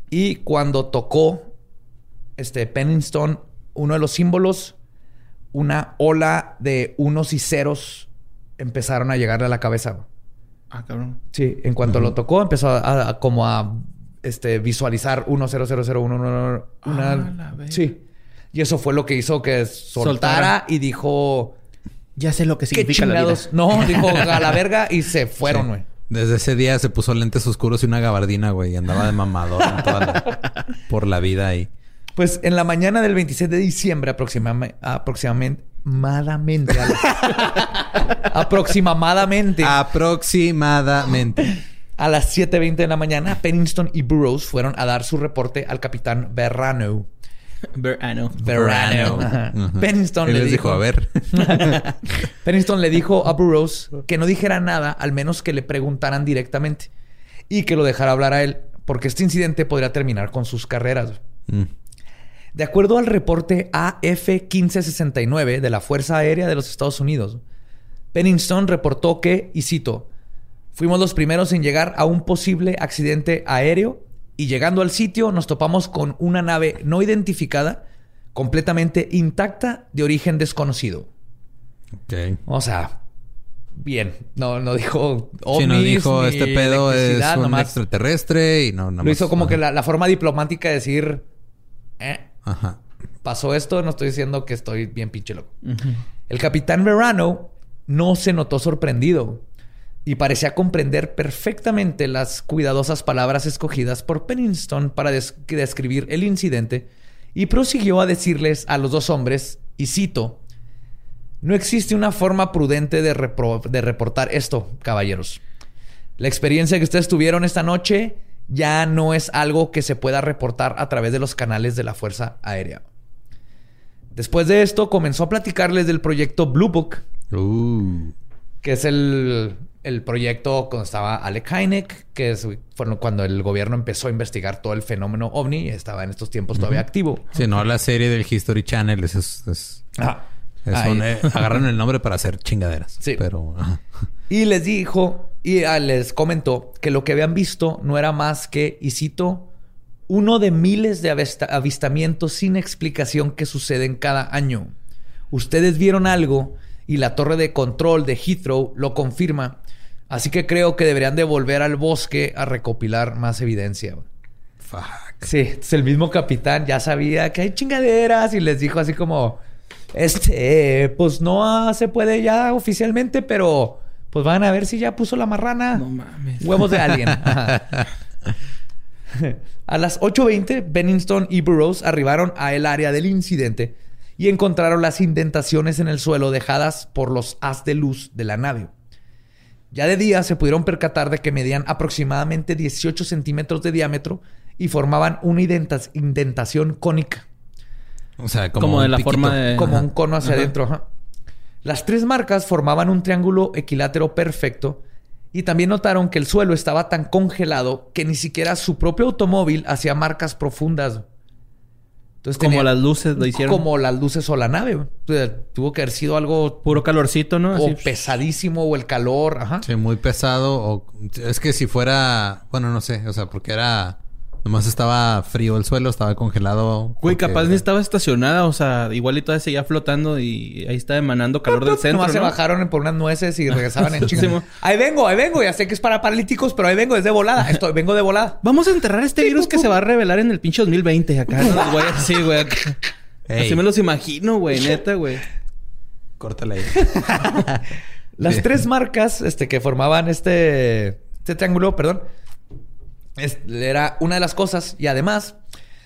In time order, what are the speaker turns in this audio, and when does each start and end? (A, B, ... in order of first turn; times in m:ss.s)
0:00.1-0:01.5 A
0:02.4-0:04.7 A
0:05.5-0:10.1 A
0:10.7-0:11.2 B
0:11.3-0:21.6 A
0:16.8-0:17.8 B
0:20.0-0:20.5 B
0:22.2-0:24.5 B
0:22.7-0:25.8 A
0:25.4-0:31.7 C
0:32.2-0:39.8 A
0:39.6-0:41.6 C
0:42.0-0:47.1 A
0:47.7-0:48.4 B
0:48.4-0:56.9 A
0:48.4-0:51.8 C
0:57.5-1:01.2 A
1:02.5-1:07.4 A
1:08.1-1:10.1 A
1:10.7-1:17.8 A
1:18.3-1:21.1 A
1:22.1-1:22.4 C
1:22.4-1:23.0 A
1:23.8-1:27.7 A
1:25.5-1:29.6 C
1:29.0-1:31.2 A
1:32.0-1:32.3 A
1:32.4-1:32.8 C
1:33.2-1:35.5 A
1:35.6-1:36.0 B
1:36.3-1:39.4 A
1:40.0-1:50.4 A
1:51.4-1:55.4 A
1:56.2-2:02.8 A
2:04.1-2:07.0 A
2:07.3-2:08.2 C
2:08.6-2:17.3 A
2:17.3-2:19.8 C
2:20.0-2:21.1 A
2:20.6-2:23.8 C
2:24.3-2:29.5 A
2:30.1-2:34.7 A
2:35.3-2:39.6 A
2:40.1-2:44.0 A
2:44.6-2:45.3 C
2:45.2-2:49.4 A
2:49.9-2:55.8 A
2:55.7-2:56.5 B
2:56.4-2:57.8 A
2:59.1-3:08.7 A
3:09.7-3:17.2 A
3:18.2-3:19.8 C
3:18.6-3:19.8 B
3:19.5-3:20.9 A
3:21.6-3:24.8 A
3:25.3-3:31.0 A
3:32.2-3:36.8 A
3:32.4-3:33.6 B
3:36.6-3:37.9 B
3:37.5-3:39.6 A
3:39.6-3:47.6 C
3:47.0-3:52.4 B
3:51.5-3:58.4 A
3:53.9-3:54.4 B
3:58.4-4:02.8 B
3:59.2-3:59.7 A
4:01.5-4:01.7 A
4:03.3-4:03.6 C
4:03.4-4:05.2 B
4:06.2-4:07.6 C
4:06.8-4:07.1 A
4:08.2-4:12.1 A
4:13.2-4:15.4 A